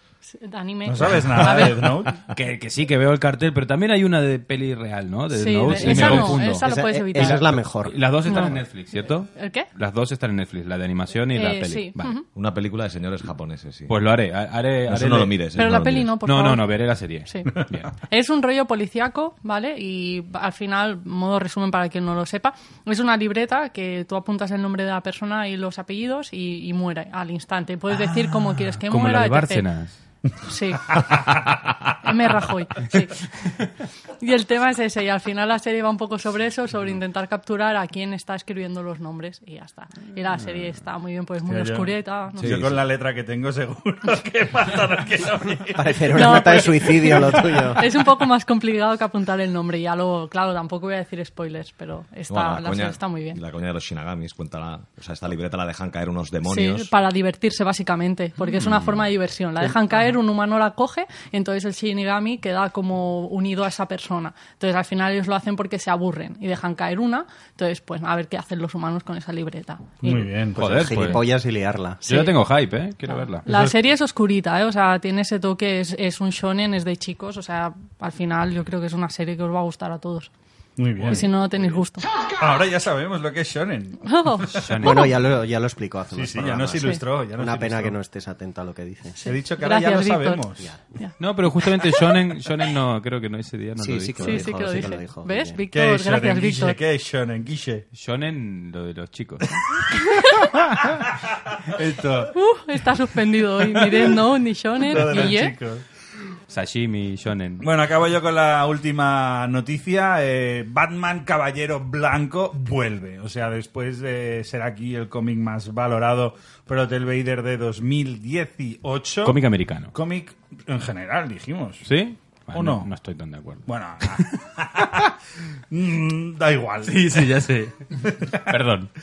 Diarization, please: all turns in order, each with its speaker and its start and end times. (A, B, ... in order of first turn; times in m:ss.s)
0:00.2-0:02.0 A
0:00.8-0:02.2 B
0:01.2-0:01.7 C
0:02.3-0:12.2 D
0:05.3-0:07.5 A
0:05.8-0:07.9 E
0:05.9-0:06.4 C
0:08.2-0:09.7 A
0:11.3-0:12.2 A
0:12.3-0:14.0 C
0:13.9-0:15.3 D
0:14.9-0:16.1 C
0:15.5-0:29.7 A
0:16.2-0:17.9 D
0:28.9-0:29.9 D
0:30.4-0:31.2 A
0:32.0-0:33.6 A
0:34.2-0:42.5 A
0:41.4-0:41.9 B
0:42.4-0:42.8 C
0:42.4-0:46.5 B
0:45.8-0:47.8 E
0:46.1-0:53.4 A
0:52.3-0:56.9 C
0:56.4-1:10.2 A
0:58.5-0:59.0 D
1:10.0-1:10.8 B
1:10.6-1:12.0 E
1:10.6-1:11.2 D
1:12.0-1:12.3 A
1:12.1-1:13.4 D
1:13.4-1:20.3 A
1:13.5-1:13.8 B
1:20.8-1:21.3 B
1:21.0-1:21.8 D
1:21.0-1:22.1 A
1:22.4-1:24.7 B
1:24.0-1:25.1 A
1:24.6-1:25.1 D
1:24.8-1:29.2 E
1:26.1-1:28.0 B
1:26.8-1:27.0 A
1:29.2-1:31.1 A
1:29.2-1:30.7 B
1:31.2-1:34.6 D
1:33.8-1:35.6 E
1:34.2-1:36.8 A
1:35.7-1:37.8 B
1:37.9-1:39.7 D
1:39.9-1:40.4 A
1:40.5-1:40.8 D
1:41.5-1:42.3 B
1:42.3-1:45.5 A
1:43.8-1:44.1 B
1:44.9-1:45.8 B
1:46.5-1:47.6 D
1:47.6-1:59.4 B
1:59.2-1:59.9 D
1:59.9-2:01.8 B
2:01.8-2:04.3 D
2:02.5-2:02.9 B
2:03.6-2:05.1 B
2:05.7-2:07.3 B
2:06.8-2:08.9 D